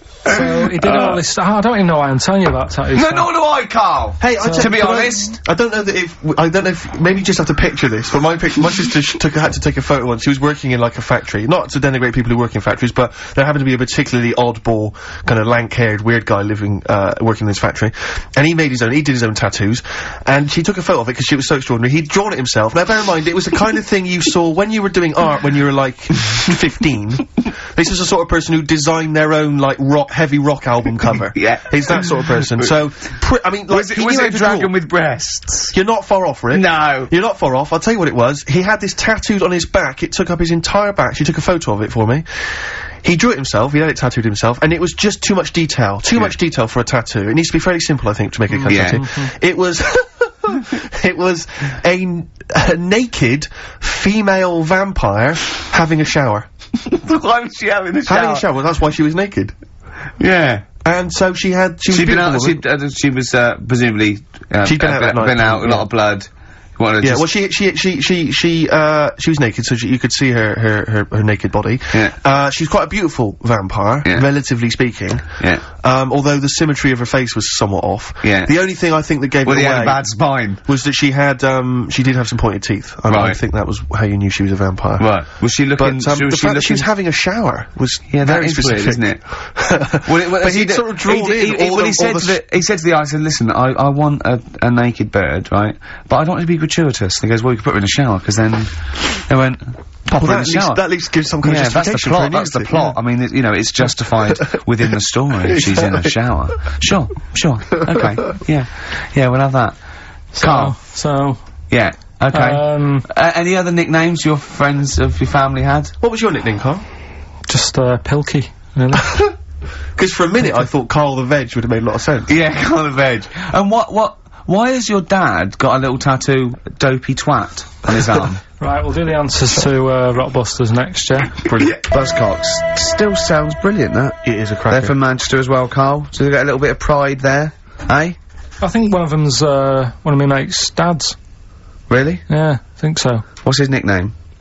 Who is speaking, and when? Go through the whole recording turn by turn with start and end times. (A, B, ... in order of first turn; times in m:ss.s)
0:00.2-0:01.2 A
0:00.2-0:03.3 B
0:02.9-0:05.4 A
0:04.2-0:34.7 C
0:04.4-0:04.7 B
0:31.3-0:32.1 A
0:33.7-0:35.7 A
0:35.7-0:56.5 C
0:36.5-0:37.1 A
0:48.5-0:49.3 B
0:48.7-0:49.0 A
0:56.8-0:58.4 A
0:58.0-0:59.5 C
1:00.2-1:00.6 A
1:00.8-1:02.6 C
1:01.9-1:07.3 A
1:04.6-1:05.8 C
1:07.0-1:20.1 C
1:15.4-1:15.6 A
1:18.2-1:18.5 A
1:19.4-1:20.6 A
1:20.6-1:25.1 C
1:23.1-1:23.4 A
1:25.0-1:26.9 A
1:25.8-1:32.4 C
1:28.1-1:29.2 A
1:30.0-1:40.8 A
1:40.2-1:42.9 C
1:41.4-1:49.8 A
1:45.4-1:46.1 C
1:47.9-1:48.1 C
1:50.3-1:51.4 B
1:50.4-1:50.8 A
1:51.7-1:55.9 A
1:52.3-1:53.0 B
1:56.0-1:56.8 C
1:57.5-1:59.2 B
1:59.0-1:59.3 C
2:00.0-2:02.3 C
2:02.3-2:08.4 A
2:08.6-2:11.4 B
2:11.4-2:11.8 C
2:11.6-2:18.2 A
2:14.2-2:14.9 C
2:18.6-2:21.2 B
2:21.9-2:22.2 A
2:22.3-2:23.2 B
2:23.4-2:24.1 A